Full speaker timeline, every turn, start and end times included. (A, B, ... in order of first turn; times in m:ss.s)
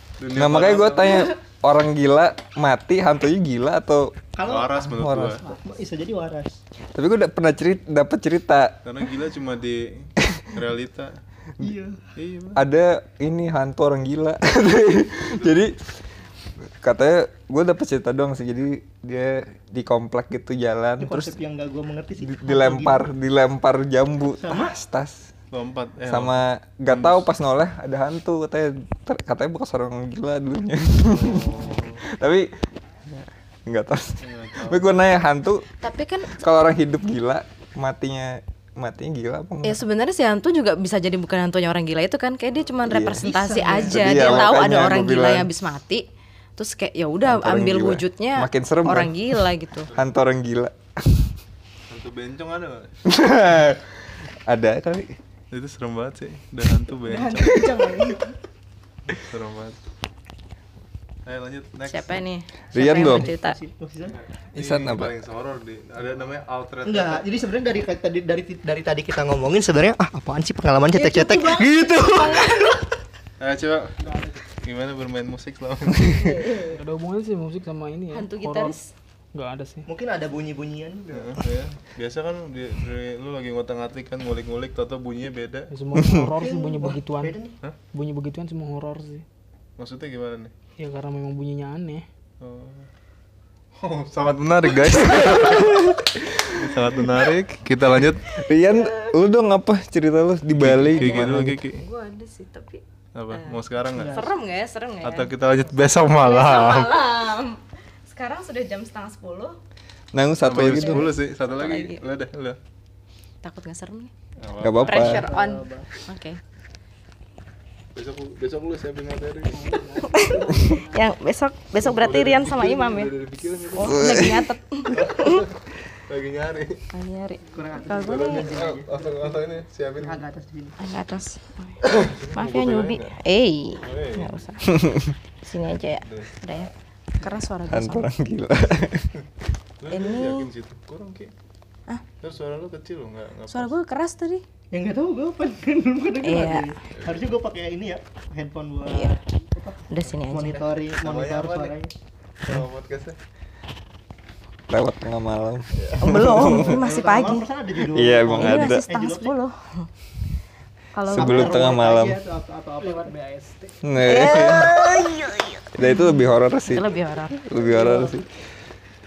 0:00.2-0:01.3 A
0:00.3-0:04.1 B
0:04.3-0:06.6 C
0:04.4-0:05.4 A
0:04.9-0:05.4 B
0:06.9-0:08.8 B
0:08.8-0:11.2 A
0:11.6-0:12.0 C
0:12.2-0:12.6 A
0:12.5-0:15.8 B
0:15.3-0:15.6 A
0:16.8-0:21.3 B
0:21.0-0:23.0 C
0:22.2-0:25.3 B
0:24.4-0:24.7 C
0:25.5-0:27.2 A
0:26.1-0:32.5 B
0:31.1-0:32.0 A
0:33.1-0:35.6 B
0:34.2-0:35.1 A
0:35.8-0:36.4 D
0:36.3-0:39.8 B
0:39.6-0:49.9 D
0:42.8-0:43.2 B
0:43.2-0:44.5 C
0:43.8-0:45.5 B
0:47.2-0:49.3 B
0:49.9-0:50.2 A
0:49.9-0:51.3 B
0:51.9-0:52.9 A
0:53.0-0:55.1 B
0:55.5-0:57.7 A
0:57.1-0:58.2 D
0:59.1-0:59.8 A
1:01.2-1:02.2 A
1:01.9-1:03.6 D
1:02.7-1:03.3 B
1:03.0-1:04.2 C
1:04.0-1:07.3 A
1:04.5-1:05.1 B
1:06.8-1:12.8 C
1:10.9-1:12.7 D
1:12.2-1:12.5 A
1:13.4-1:14.0 A
1:14.6-1:16.6 A
1:16.0-1:16.8 D
1:16.7-1:18.8 E
1:18.1-1:18.9 D
1:19.3-1:19.9 E
1:19.9-1:21.4 C
1:21.1-1:25.7 A
1:25.7-1:27.3 E
1:26.1-1:27.6 C
1:27.9-1:29.2 E
1:29.8-1:30.5 A
1:30.8-1:32.1 E
1:32.4-1:32.9 A
1:33.7-1:38.3 A
1:38.3-1:39.1 D
1:38.4-1:41.6 B
1:40.5-1:41.8 A
1:40.9-1:49.6 D
1:43.1-1:44.2 A
1:44.0-1:44.2 C
1:45.0-1:47.0 A
1:50.1-1:51.1 B
1:50.4-1:52.6 A
1:50.6-1:52.0 D
1:53.4-1:54.1 D
1:54.4-1:55.3 A
1:54.6-1:55.2 B
1:54.8-1:56.4 D
1:55.0-1:55.9 C
1:57.9-1:59.8 A
1:59.6-2:01.0 E
2:00.0-2:03.1 D
2:01.7-2:04.3 A
2:03.7-2:05.4 D
2:03.8-2:04.4 B
2:04.9-2:06.8 A
2:06.9-2:08.5 D
2:07.5-2:09.4 C
2:08.0-2:10.2 A
2:10.0-2:10.8 C
2:10.8-2:11.8 D
2:11.8-2:13.2 A
2:12.3-2:14.8 D
2:13.8-2:14.4 A
2:15.4-2:18.1 D
2:16.0-2:16.3 A
2:17.7-2:19.1 B
2:19.8-2:21.3 A
2:19.9-2:20.5 D
2:22.2-2:23.7 A
2:23.5-2:24.4 D
2:24.7-2:31.9 C
2:26.2-2:26.7 D
2:26.9-2:27.2 A
2:28.8-2:29.2 D
2:29.9-2:30.7 D
2:31.0-2:31.8 A
2:32.4-2:33.2 A
2:34.7-2:36.8 B
2:35.8-2:36.6 A
2:36.0-2:37.5 D
2:36.5-2:39.3 C
2:37.9-2:38.8 B
2:38.3-2:39.9 D
2:40.9-2:41.8 D
2:41.1-2:42.2 B
2:41.1-2:43.5 C
2:43.8-2:45.0 B
2:43.9-2:47.4 D
2:45.7-2:48.3 B
2:47.6-2:48.1 C